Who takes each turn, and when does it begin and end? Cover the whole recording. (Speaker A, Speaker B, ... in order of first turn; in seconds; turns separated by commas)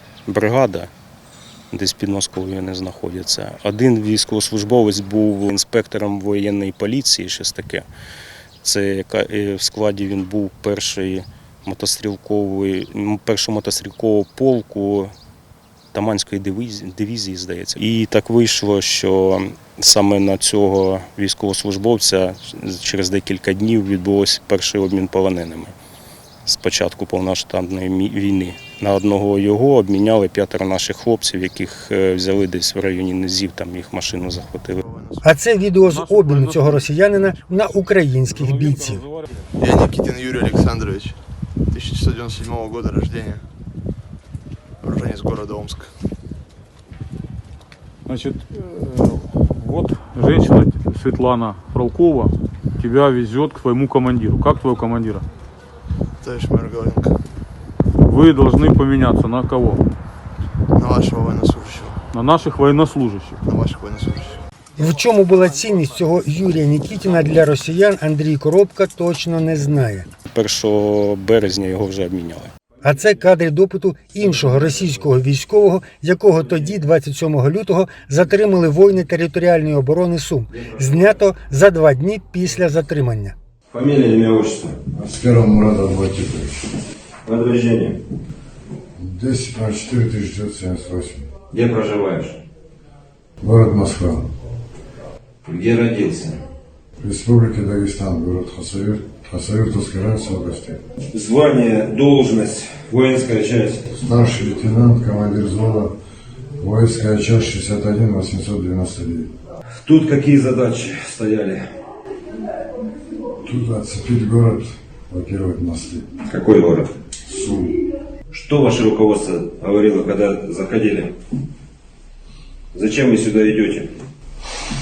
Speaker A: 0.3-0.9, Speaker A: 1.7-7.9, Speaker A: 8.6-15.1, Speaker A: 15.9-25.7, Speaker A: 26.5-34.8, Speaker B: 34.8-35.2, Speaker C: 35.2-39.0, Speaker D: 35.9-36.9, Speaker D: 38.3-39.2, Speaker B: 39.6-41.2, Speaker B: 41.7-43.4, Speaker B: 44.8-45.9, Speaker D: 48.1-55.2, Speaker B: 56.2-57.2, Speaker D: 58.0-59.8, Speaker B: 60.8-62.0, Speaker D: 62.1-63.4, Speaker B: 63.5-64.4, Speaker C: 64.8-70.1, Speaker A: 70.3-72.5, Speaker C: 72.8-83.3, Speaker E: 83.7-84.8, Speaker F: 85.0-86.7, Speaker E: 87.3-88.0, Speaker F: 89.0-91.3, Speaker E: 91.5-92.4, Speaker F: 93.4-94.3, Speaker E: 95.5-96.4, Speaker F: 97.0-100.8, Speaker E: 101.1-103.8, Speaker F: 103.9-105.9, Speaker F: 106.6-109.3, Speaker E: 109.8-111.7, Speaker F: 113.4-116.1, Speaker E: 116.3-116.9, Speaker F: 117.3-117.7, Speaker E: 118.3-121.2, Speaker E: 122.7-124.0